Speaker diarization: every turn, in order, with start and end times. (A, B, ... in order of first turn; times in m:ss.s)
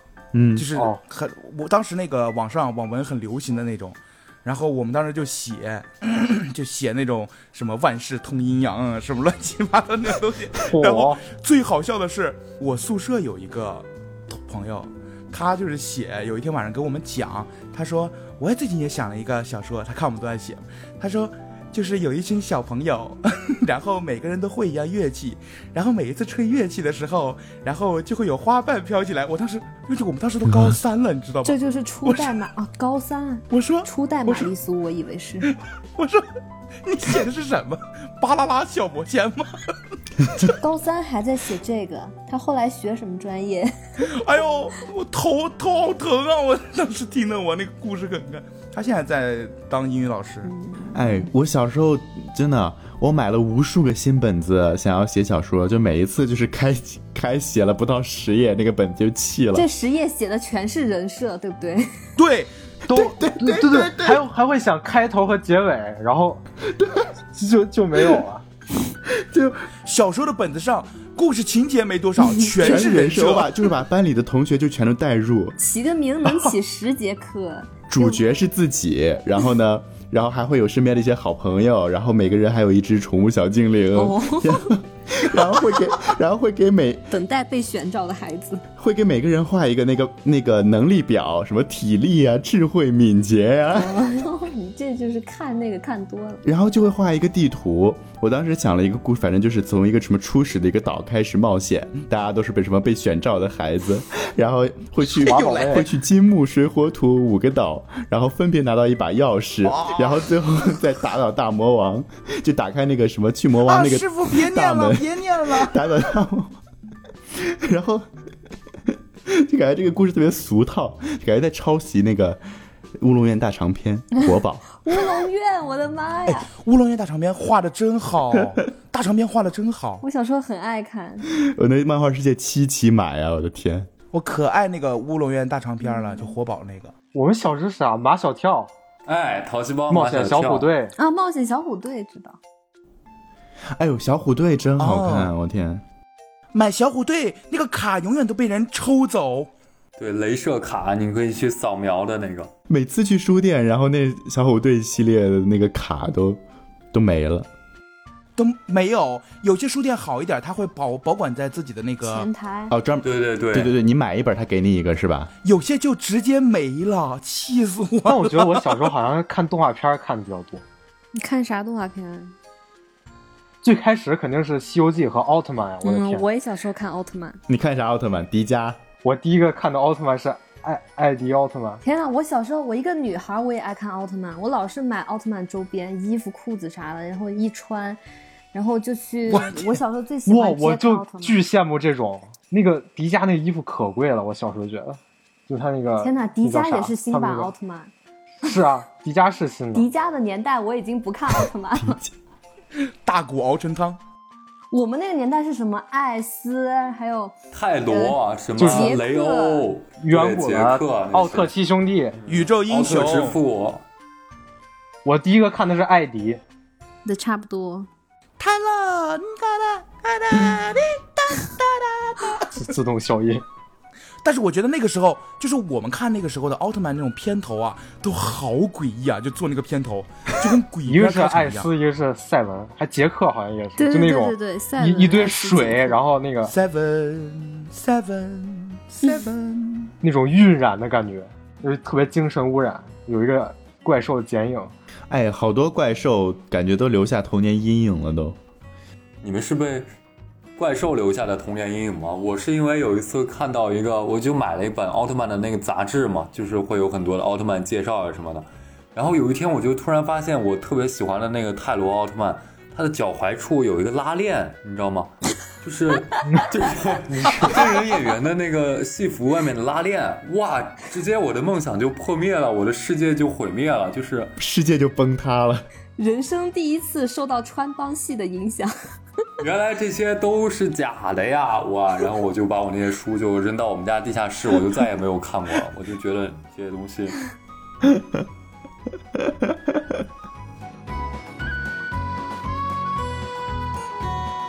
0:00.3-0:00.7 A
0:00.6-0:32.3 B
0:00.7-0:01.0 C
0:10.7-0:11.2 C
0:31.4-0:35.5 D
0:33.5-0:34.5 B
0:35.5-0:36.2 B
0:36.8-0:39.6 B
0:40.6-0:43.7 D
0:44.0-0:50.5 B
0:50.4-0:51.3 D
0:50.9-0:59.7 A
0:59.5-1:02.0 D
1:02.2-1:02.5 B
1:02.9-1:06.4 C
1:02.9-1:04.2 A
1:06.7-1:07.1 A
1:07.3-1:08.4 C
1:09.1-1:09.7 A
1:09.8-1:13.5 B
1:12.4-1:15.6 A
1:15.6-1:18.2 D
1:17.9-1:27.1 A
1:23.9-1:24.7 D
1:27.1-1:28.6 D
1:28.8-1:34.0 A
1:33.7-1:36.4 D
1:36.4-1:56.6 A
1:45.1-1:45.9 C
1:45.3-1:45.8 B
1:49.6-1:50.2 B
1:53.6-1:55.8 B
1:57.3-1:58.1 A
1:59.2-2:02.4 A
2:03.0-2:04.6 A
2:04.7-2:06.5 D
2:06.3-2:10.0 B
2:10.0-2:11.3 D
2:11.3-2:13.9 A
2:14.1-2:16.9 B
2:17.1-2:18.7 C
2:19.0-2:20.7 E
2:19.9-2:20.9 C
2:21.0-2:22.4 D
2:23.7-2:25.8 A
2:24.8-2:25.3 B
2:26.5-2:29.5 B
2:30.0-2:32.5 E
2:32.7-2:36.4 A
2:36.9-2:37.5 A
2:38.4-2:42.3 B
2:42.0-2:42.7 D
2:42.7-2:45.3 A
2:43.0-2:43.7 E
2:45.4-2:48.9 B
2:48.0-2:50.6 C
2:51.1-2:52.3 D
2:53.6-2:56.2 C
2:55.8-2:57.4 D
2:57.5-2:58.8 A
2:59.0-3:01.8 C
3:01.8-3:08.0 D
3:08.5-3:11.4 D
3:09.3-3:09.7 B
3:10.2-3:17.5 C
3:16.0-3:17.9 D
3:18.4-3:19.9 C
3:19.7-3:22.0 D
3:21.8-3:22.1 A
3:23.0-3:24.0 B
3:24.7-3:27.3 D
3:27.5-3:31.5 E
3:27.8-3:29.7 D
3:28.6-3:29.0 C
3:30.0-3:32.2 C
3:32.2-3:33.8 E
3:32.3-3:33.4 B
3:35.0-3:36.4 C
3:37.0-3:37.9 D
3:38.4-3:42.5 B
3:42.5-3:43.4 C
3:44.2-3:51.7 B
3:50.8-3:56.5 C
3:53.8-3:56.0 D
3:56.5-3:59.9 B
4:00.0-4:04.7 C
4:05.1-4:08.4 A
4:09.2-4:09.9 E
4:10.6-4:34.3 E
4:27.1-4:27.7 C
4:34.4-4:35.6 A
4:36.0-4:38.7 D
4:39.4-4:47.2 E
4:47.8-4:48.2 A
4:49.2-4:49.8 A